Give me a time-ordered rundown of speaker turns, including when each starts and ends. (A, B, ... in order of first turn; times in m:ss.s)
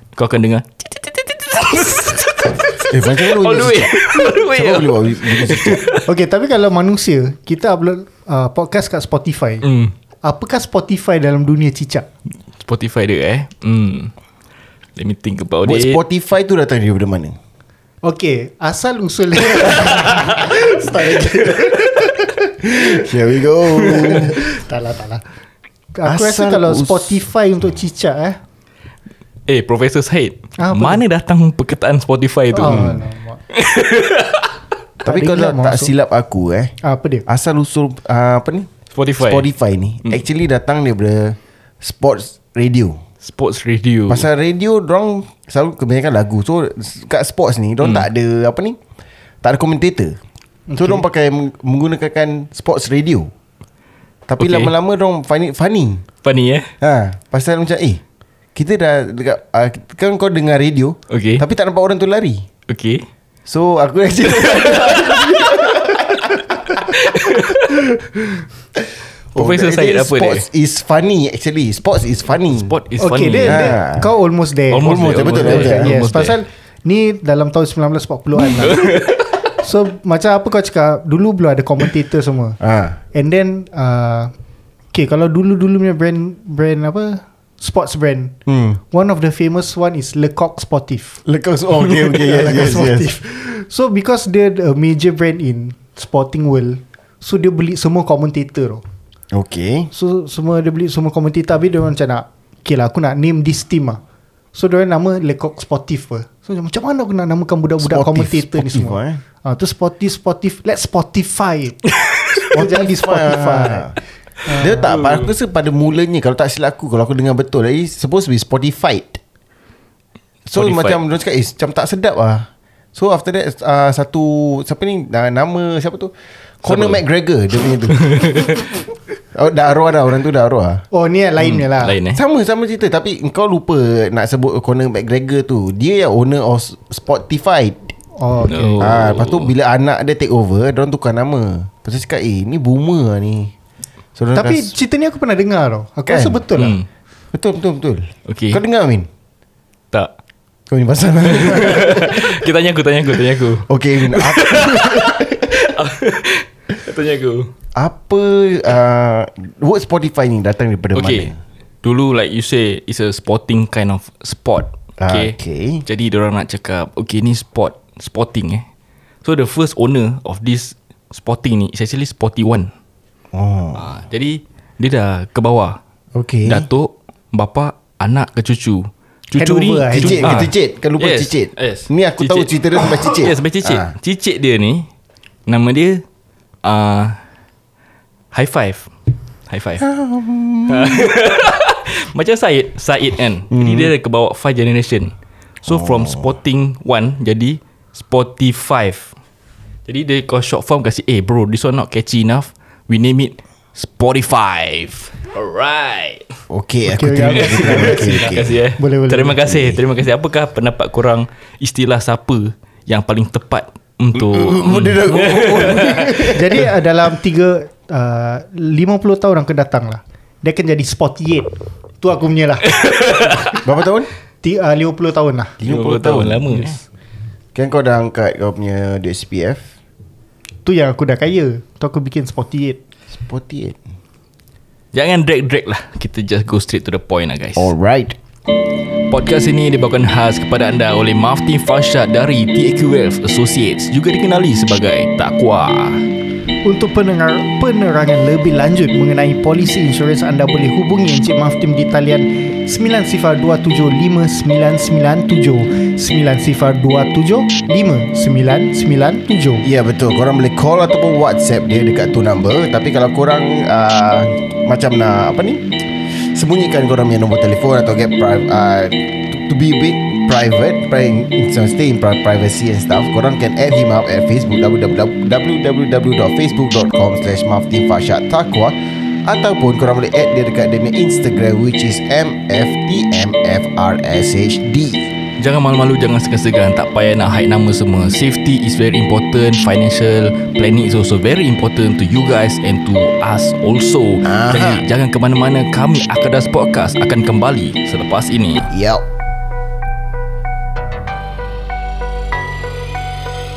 0:00.2-0:06.1 A
0:02.8-0:05.8 B
0:06.0-0:09.6 C
0:09.6-0:09.9 A
0:10.2-0:12.1 C
0:12.6-0:14.1 A
0:15.0-0:16.0 A
0:15.6-0:17.4 B
0:18.0-0:23.0 C
0:22.6-0:24.4 B
0:23.8-0:25.2 C
0:26.0-0:28.4 C
0:26.0-0:27.2 B
0:29.5-0:33.0 A
0:30.6-0:31.0 C
0:32.5-0:33.4 C
0:32.6-0:33.0 B
0:33.5-0:34.5 A
0:35.0-0:36.7 B
0:35.0-0:35.9 C
0:36.8-0:37.2 C
0:37.3-0:38.7 B
0:38.9-0:39.5 A
0:39.2-0:43.0 B
0:43.2-0:44.3 A
0:44.1-0:48.8 B
0:49.4-0:50.2 B
0:50.7-0:51.0 C
0:50.8-0:53.3 B
0:54.3-0:56.0 B
0:54.4-0:54.7 A
0:56.2-0:56.7 A
0:56.8-0:58.0 B
0:58.6-1:02.5 B
1:01.1-1:01.4 A
1:02.7-1:03.0 A
1:03.5-1:06.9 B
1:04.6-1:05.2 A
1:06.9-1:07.8 A
1:09.4-1:10.4 A
1:09.4-1:12.7 B
1:12.5-1:13.8 A
1:13.0-1:22.6 C
1:13.5-1:14.1 B
1:14.7-1:16.4 A
1:14.8-1:15.9 B
1:18.6-1:19.2 A
1:22.6-1:23.0 B
1:23.1-1:24.3 C
1:24.9-1:28.3 C
1:28.5-1:28.8 B
1:28.9-1:31.2 C
1:31.2-1:33.1 B
1:32.1-1:38.8 C
1:39.3-1:39.9 B
1:39.9-1:44.0 C
1:44.5-1:51.8 C
1:47.8-1:49.2 B
1:52.0-1:52.5 A
1:52.4-1:54.9 C
1:52.5-1:54.0 B
1:54.5-1:59.2 B
1:54.8-1:55.3 A
2:00.5-2:08.6 B
2:00.6-2:01.0 A
2:06.6-2:07.0 A
2:07.9-2:08.7 A
2:09.3-2:10.8 B
2:10.9-2:12.0 C
2:11.4-2:12.2 A
2:12.1-2:17.9 B
2:18.2-2:18.9 C
2:18.4-2:19.5 A
2:18.8-2:23.5 B
2:24.2-2:24.7 B
2:24.4-2:26.8 C
2:26.1-2:26.4 B
2:26.6-2:26.9 A
2:27.3-2:29.1 B
2:28.3-2:28.6 A
2:30.7-2:32.4 B
2:31.3-2:37.5 A
2:33.7-2:35.7 B
2:37.8-2:41.4 B
2:41.0-2:41.3 A
2:41.8-2:45.3 A
2:45.0-2:45.8 B
2:45.9-2:48.6 A
2:49.2-2:52.7 A
2:53.3-2:53.9 B
2:53.8-2:55.8 A
2:56.2-2:56.7 B
2:56.5-3:04.9 A
2:59.4-3:00.4 C
2:59.9-3:03.9 B
3:05.5-3:06.0 A
3:06.6-3:07.2 A
3:08.3-3:08.9 A
3:09.5-3:09.8 A
3:09.8-3:11.2 B
3:10.7-3:19.1 A
3:13.5-3:13.9 B
3:15.7-3:16.3 B
3:19.9-3:26.4 A
3:26.5-3:28.6 B
3:26.9-3:29.7 C
3:27.3-3:36.3 A
3:29.5-3:29.8 B
3:34.1-3:36.7 B
3:36.2-3:43.6 C
3:42.7-3:43.5 A
3:43.6-3:44.1 B
3:44.4-3:45.6 C
3:45.6-3:46.5 B
3:45.6-3:46.8 A
3:46.5-3:46.8 C
3:47.6-3:49.6 B
3:50.6-3:52.8 C
3:53.1-3:53.8 B
3:54.9-3:57.7 A
3:57.6-3:58.2 B
3:59.1-4:06.1 A
4:06.6-4:19.7 C
4:19.6-4:45.1 B
4:45.4-4:58.7 A
4:54.2-4:54.8 B
4:58.7-4:59.0 B